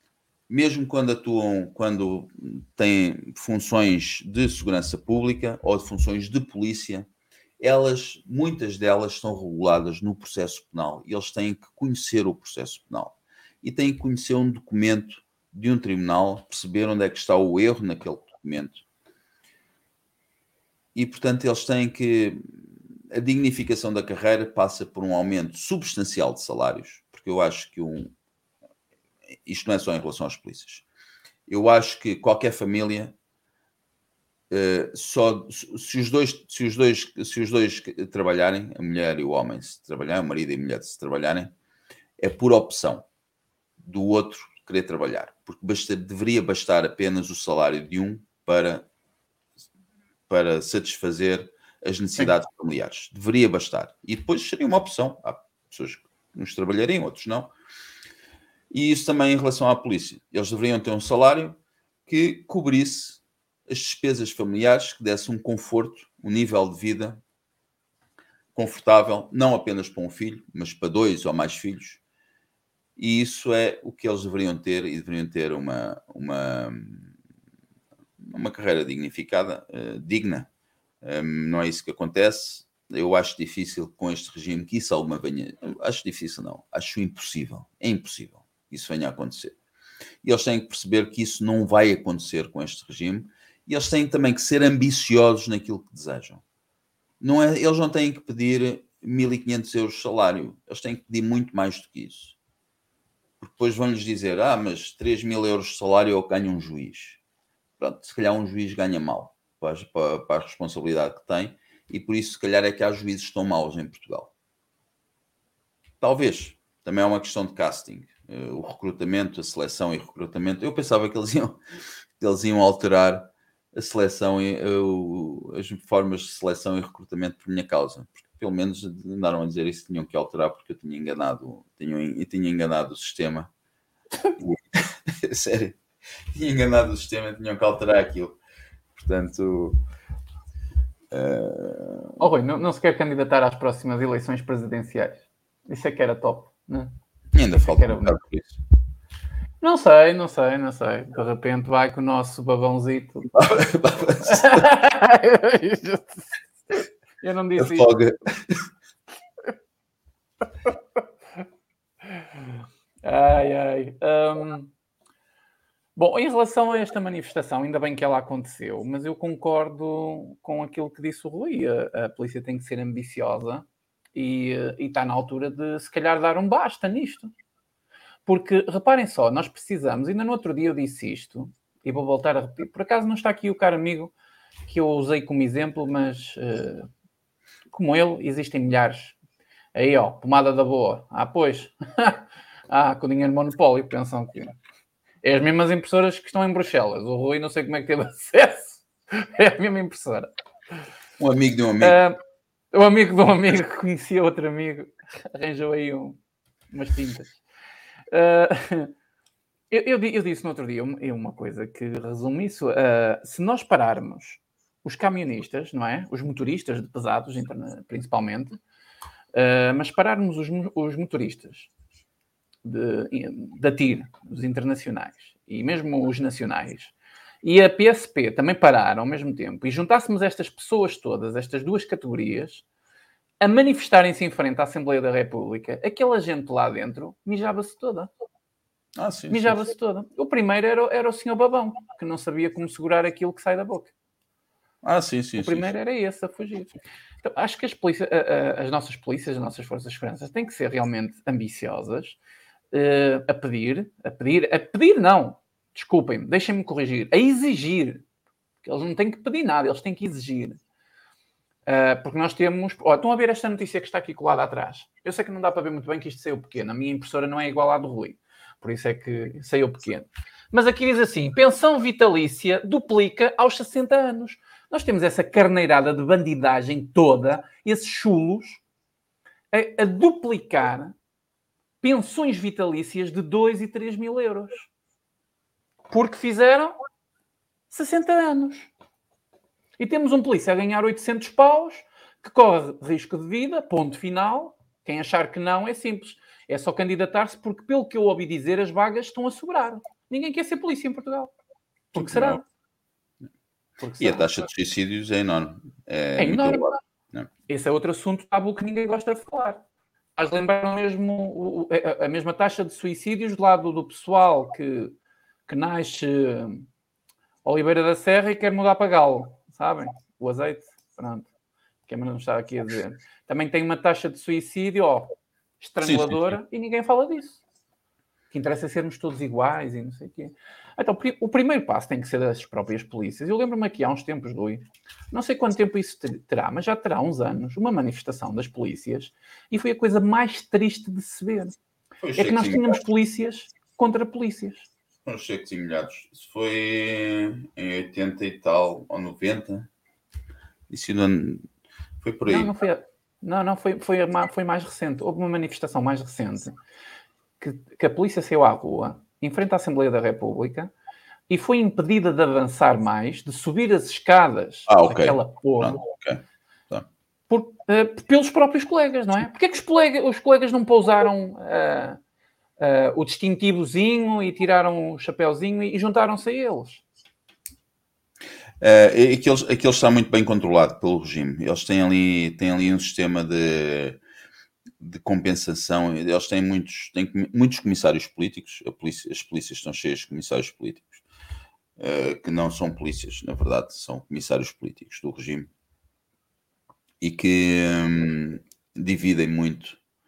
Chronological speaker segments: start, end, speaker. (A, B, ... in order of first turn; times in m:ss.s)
0:00.5-0:07.1 A
0:07.6-0:18.8 A
0:20.9-0:28.1 A
0:29.4-0:30.8 A
0:31.5-0:33.2 A
0:34.5-0:41.5 A
0:42.2-0:43.0 A
0:43.8-0:48.8 A
0:50.3-0:57.5 A
0:58.7-1:07.2 A
1:08.5-1:12.0 A
1:13.0-1:17.1 A
1:18.2-1:20.5 A
1:21.0-1:29.6 A
1:30.2-1:36.4 A
1:37.2-1:42.4 A
1:43.4-1:47.2 A
1:47.8-1:54.3 A
1:56.0-2:01.6 A
2:02.2-2:13.5 A
2:14.4-2:15.8 A
2:16.3-2:18.4 A
2:18.9-2:19.8 A
2:21.1-2:22.2 A
2:22.2-2:26.9 B
2:27.3-2:28.6 A
2:27.6-2:28.2 B
2:29.6-2:33.3 B
2:33.3-2:34.6 A
2:34.2-2:36.2 B
2:37.2-2:37.9 B
2:37.6-2:38.6 A
2:43.0-2:44.7 B
2:46.0-2:57.3 B
2:58.2-3:04.1 B
3:04.6-3:06.9 B
3:07.7-3:09.2 B
3:09.7-3:14.5 B
3:15.2-3:20.3 B
3:21.2-3:22.0 A
3:21.8-3:22.2 B
3:22.7-3:26.2 B
3:26.7-3:27.3 B
3:28.1-3:28.9 B
3:29.7-3:38.6 B
3:39.3-3:41.7 B
3:42.6-3:52.6 B
3:53.4-3:58.1 B
3:59.0-3:59.6 A
3:59.3-4:03.9 B
4:04.8-4:05.7 A
4:05.4-4:12.2 B
4:12.7-4:18.0 B
4:18.6-4:20.6 B
4:21.7-4:38.6 B
4:39.5-4:40.9 B
4:41.8-4:44.7 B
4:45.9-4:46.8 B
4:47.7-4:48.7 B
4:49.8-5:01.3 B
5:01.9-5:02.4 B
5:02.0-5:02.4 A
5:03.8-5:04.3 B
5:04.0-5:07.3 A
5:06.2-5:06.8 B
5:07.5-5:09.6 B
5:10.2-5:15.0 B
5:15.5-5:16.6 B
5:17.4-5:21.3 B
5:21.9-5:27.4 B
5:25.8-5:26.3 A
5:28.3-5:41.6 B
5:42.0-5:42.8 A
5:42.2-5:44.7 B
5:45.0-5:49.7 A
5:50.7-5:51.4 A
5:52.0-5:52.5 A
5:52.3-5:56.6 B
5:57.4-6:00.7 B
6:01.3-6:05.8 B
6:04.7-6:06.8 A
6:07.3-6:12.0 B
6:12.6-6:16.8 B
6:18.6-6:24.0 A
6:24.8-6:31.0 A
6:31.8-6:35.5 A
6:37.0-6:39.8 A